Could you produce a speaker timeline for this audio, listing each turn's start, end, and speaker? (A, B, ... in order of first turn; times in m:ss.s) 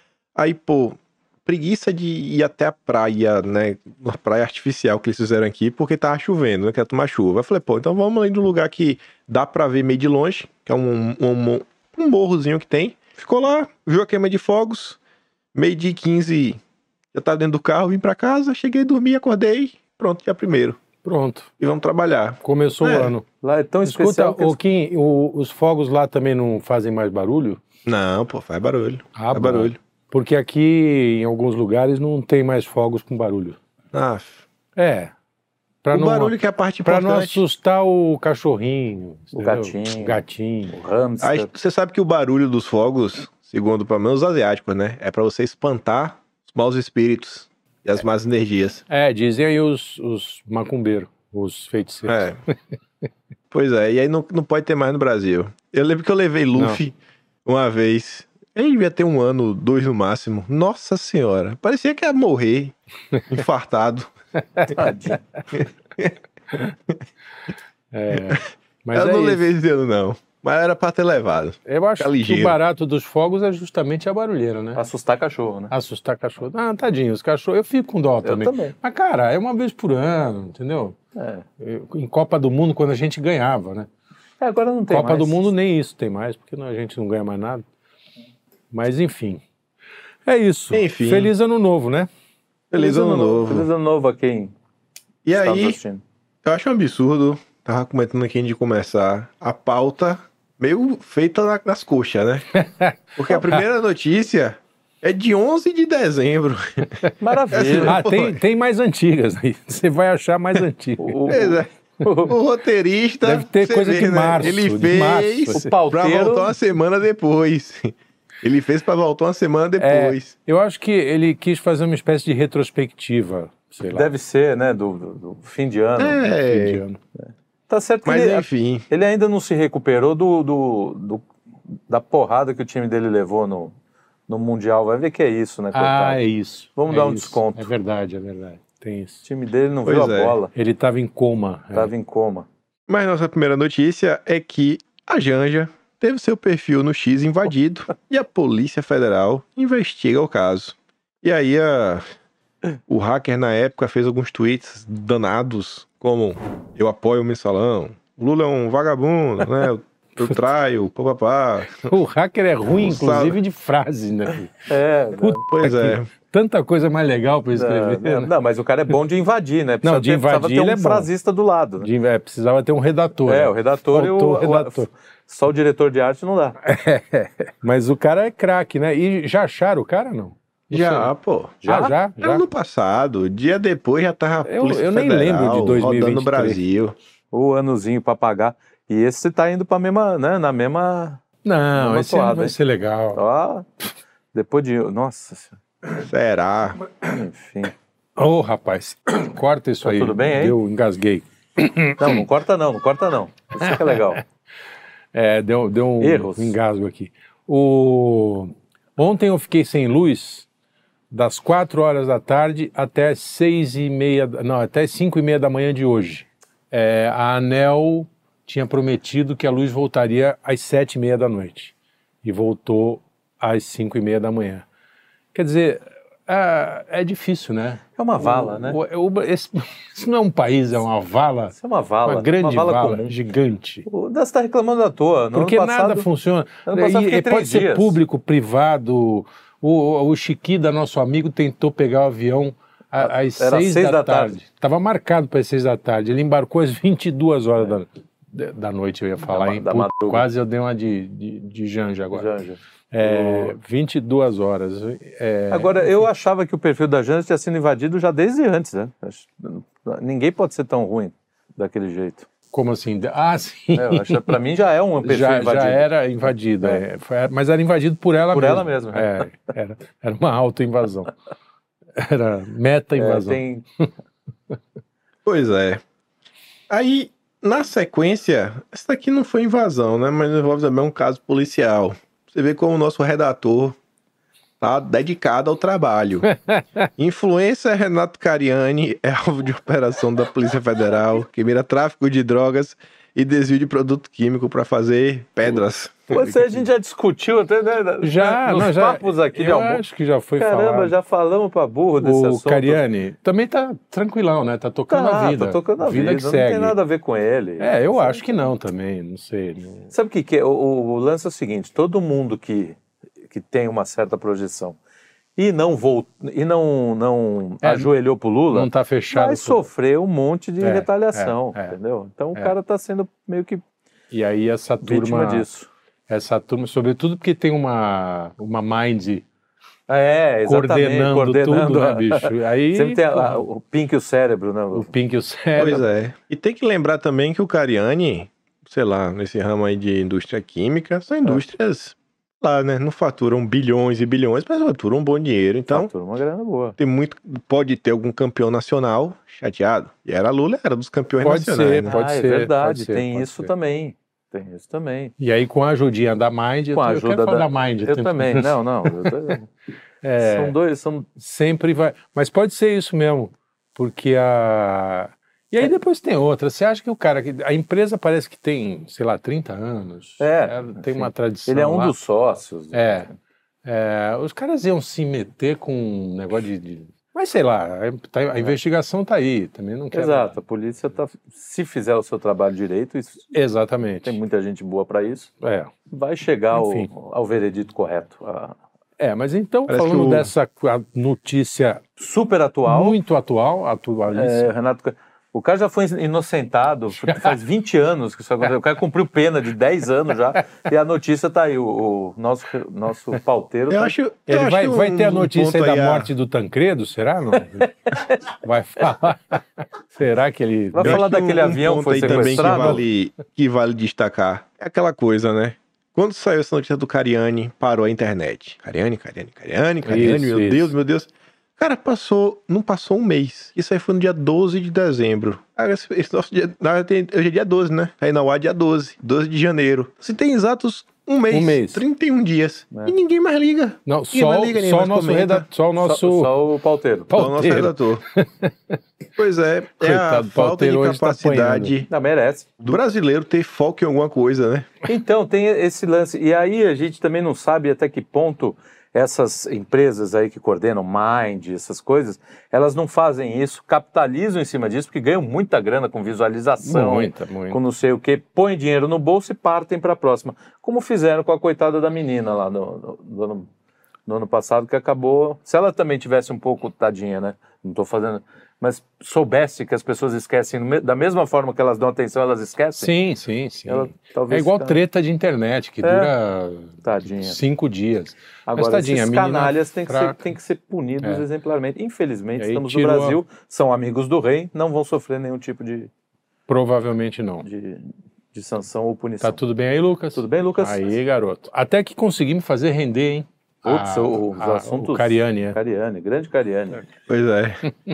0:00.4-0:15.0 A
0:15.5-0:16.6 A
0:17.1-0:20.8 A
0:21.0-0:21.5 B
0:21.6-0:23.2 A
0:22.4-0:23.2 B
0:23.4-0:24.6 C
0:23.8-0:27.6 B
0:27.9-0:29.8 A
0:29.2-0:33.6 B
0:33.9-0:34.4 A
0:34.8-0:35.1 B
0:35.8-0:40.8 B
0:35.9-0:37.4 A
0:39.4-0:41.5 C
0:41.2-0:48.8 A
0:48.9-0:52.3 B
0:52.1-0:52.4 A
0:53.5-1:04.1 A
1:04.7-1:05.2 C
1:05.5-1:06.2 A
1:07.9-1:09.5 B
1:08.1-1:12.6 A
1:11.7-1:14.8 B
1:14.8-1:15.7 C
1:15.7-1:21.0 B
1:18.2-1:18.8 C
1:21.2-1:21.4 C
1:21.6-1:23.9 B
1:24.4-1:25.4 C
1:24.9-1:27.6 B
1:28.7-1:29.4 B
1:30.3-1:32.1 B
1:30.7-1:31.3 A
1:32.7-1:33.7 A
1:32.8-1:34.5 C
1:35.2-1:35.8 A
1:35.3-1:36.0 C
1:36.4-1:42.6 A
1:42.5-1:43.6 B
1:43.2-1:48.4 A
1:47.2-1:48.0 C
1:47.7-1:51.3 B
1:51.0-1:52.4 C
1:51.3-1:51.7 A
1:52.3-2:00.3 A
1:53.2-1:55.7 B
1:55.5-1:56.5 C
1:59.8-2:04.1 B
2:03.9-2:06.2 C
2:06.0-2:06.8 A
2:06.3-2:07.0 B
2:07.2-2:11.3 C
2:08.0-2:08.8 A
2:11.9-2:13.8 C
2:14.3-2:16.2 C
2:15.7-2:19.2 B
2:16.8-2:17.7 C
2:19.2-2:20.5 C
2:19.8-2:20.4 A
2:20.5-2:21.9 B
2:21.7-2:22.5 C
2:22.9-2:32.0 A
2:32.9-2:42.0 A
2:41.8-2:48.3 B
2:42.8-2:43.4 A
2:44.7-2:45.4 C
2:45.5-2:46.1 A
2:47.6-2:51.9 C
2:49.8-2:51.1 B
2:51.8-2:54.9 B
2:53.3-2:56.6 C
2:56.6-3:01.1 B
3:00.7-3:01.6 A
3:01.6-3:02.0 C
3:01.7-3:02.4 B
3:02.2-3:07.0 A
3:04.4-3:06.6 B
3:07.3-3:11.2 C
3:11.4-3:13.2 B
3:11.8-3:12.6 C
3:13.1-3:13.7 C
3:14.3-3:15.6 C
3:16.0-3:16.8 A
3:17.0-3:17.7 C
3:18.2-3:22.2 B
3:19.8-3:20.6 C
3:22.0-3:24.2 C
3:23.6-3:24.2 B
3:25.1-3:30.5 B
3:26.0-3:26.6 C
3:31.1-3:44.7 B
3:45.3-3:53.9 B
3:48.0-3:48.8 C
3:51.6-3:53.2 C
3:53.9-3:56.1 C
3:55.3-4:12.4 B
3:56.6-3:58.0 C
4:03.0-4:04.4 C
4:09.2-4:10.3 C
4:12.1-4:13.6 C
4:12.9-4:15.7 B
4:15.5-4:22.3 C
4:22.5-4:24.4 B
4:23.7-4:25.9 C
4:25.0-4:31.1 B
4:28.3-4:29.3 C
4:32.0-4:33.9 B
4:33.0-4:33.6 C
4:35.2-4:35.8 A
4:36.7-4:43.8 A
4:44.6-4:46.3 A
4:46.3-4:46.9 B
4:47.0-4:56.3 A
4:56.1-4:59.8 C
4:58.0-5:00.9 B
5:00.4-5:02.8 C
5:02.0-5:06.8 B
5:04.9-5:08.3 C
5:07.6-5:09.9 B
5:09.9-5:12.8 C
5:13.3-5:14.8 C
5:15.4-5:23.6 C
5:17.6-5:17.9 B
5:18.5-5:19.7 B
5:20.6-5:21.8 B
5:24.1-5:25.5 B
5:24.8-5:25.7 C
5:26.1-5:29.2 B
5:29.9-5:34.9 C
5:30.4-5:33.4 B
5:34.7-5:35.8 B
5:35.6-5:45.9 A
5:45.7-5:46.8 C
5:46.8-5:51.9 A
5:51.2-5:53.5 B
5:51.8-5:55.1 C
5:55.2-5:59.3 B
5:56.7-5:59.5 C
6:00.0-6:00.6 B
6:00.2-6:01.1 C
6:01.2-6:12.0 B
6:10.2-6:13.1 C
6:12.7-6:13.1 B
6:13.6-6:20.4 B
6:19.9-6:23.3 C
6:23.3-6:24.2 B
6:24.0-6:25.3 C
6:25.4-6:25.7 B
6:25.9-6:28.6 C
6:26.5-6:26.9 B
6:29.0-6:31.8 B
6:29.7-6:30.3 A
6:32.0-6:33.0 C
6:32.7-6:34.5 B
6:34.1-6:43.9 C
6:37.0-6:37.4 B
6:43.7-6:46.1 A
6:44.3-6:51.1 B
6:47.9-6:48.3 C
6:50.7-6:52.8 C
6:50.8-7:15.5 A
6:52.0-6:52.8 B
6:59.8-7:00.7 B
7:11.3-7:11.8 B
7:13.9-7:16.3 B
7:15.8-7:17.1 C
7:17.1-7:18.8 B
7:17.1-7:18.0 A
7:19.2-7:21.9 A
7:19.8-7:21.8 B
7:21.9-7:22.5 C
7:22.6-7:24.7 A
7:24.9-7:43.5 C
7:36.6-7:37.6 B
7:44.1-7:52.9 C
7:52.8-8:00.2 B
7:53.7-7:54.8 C
7:55.8-7:56.1 C
7:56.8-7:57.4 C
7:58.5-8:05.9 C
8:02.4-8:03.2 B
8:06.5-8:07.5 B
8:07.4-8:09.4 C
8:09.2-8:15.6 B
8:10.1-8:10.9 C
8:13.6-8:16.8 C
8:17.1-8:17.7 A